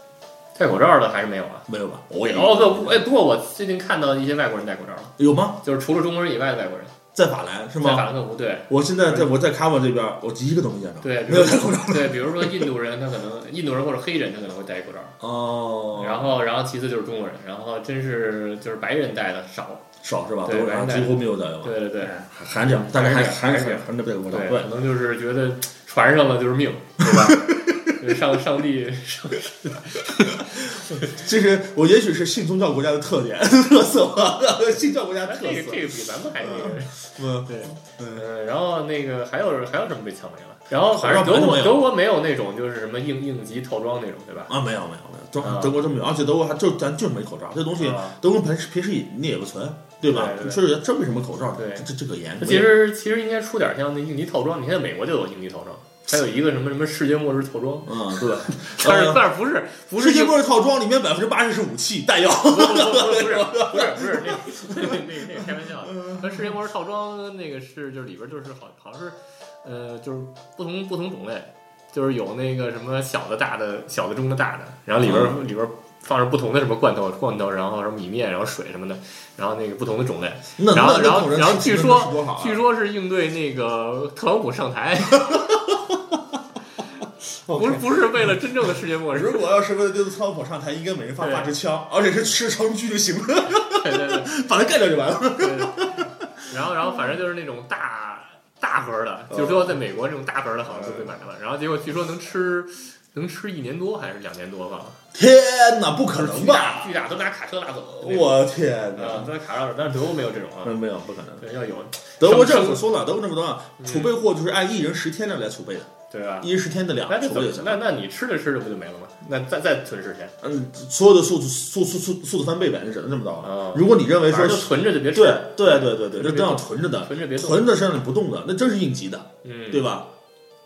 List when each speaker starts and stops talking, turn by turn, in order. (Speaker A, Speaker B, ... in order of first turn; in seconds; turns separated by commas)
Speaker A: 0.5-1.7, Speaker B: 1.7-3.0, Speaker A: 2.3-6.9, Speaker B: 5.2-5.6, Speaker B: 7.1-8.1, Speaker A: 7.8-9.3, Speaker B: 8.7-12.7, Speaker A: 11.0-15.2, Speaker B: 15.2-16.3, Speaker A: 15.9-19.9, Speaker B: 20.0-24.7, Speaker A: 20.4-30.5, Speaker B: 27.0-28.4, Speaker B: 29.9-38.3, Speaker A: 35.2-44.5, Speaker B: 40.8-41.9, Speaker B: 44.5-52.7, Speaker A: 45.4-45.8, Speaker A: 47.8-48.1, Speaker A: 50.1-50.6, Speaker A: 51.5-51.9, Speaker A: 52.4-57.9, Speaker B: 57.9-59.2, Speaker A: 58.5-60.4, Speaker B: 60.0-66.5, Speaker A: 62.5-85.4, Speaker B: 75.0-75.4, Speaker B: 80.6-82.6, Speaker B: 85.1-86.3, Speaker B: 87.4-88.4, Speaker A: 87.5-89.4, Speaker B: 89.1-97.1, Speaker A: 91.2-91.5, Speaker A: 93.7-94.3, Speaker A: 95.4-105.0, Speaker B: 99.3-99.8, Speaker B: 100.6-101.1, Speaker B: 105.1-106.9, Speaker A: 106.1-108.4, Speaker B: 108.0-109.3, Speaker A: 109.0-110.8, Speaker B: 110.6-111.4, Speaker A: 111.4-112.8, Speaker B: 112.2-117.8, Speaker A: 113.8-114.1, Speaker A: 116.1-116.5, Speaker A: 117.1-120.3, Speaker B: 120.4-130.1, Speaker A: 123.4-127.7, Speaker A: 129.4-129.9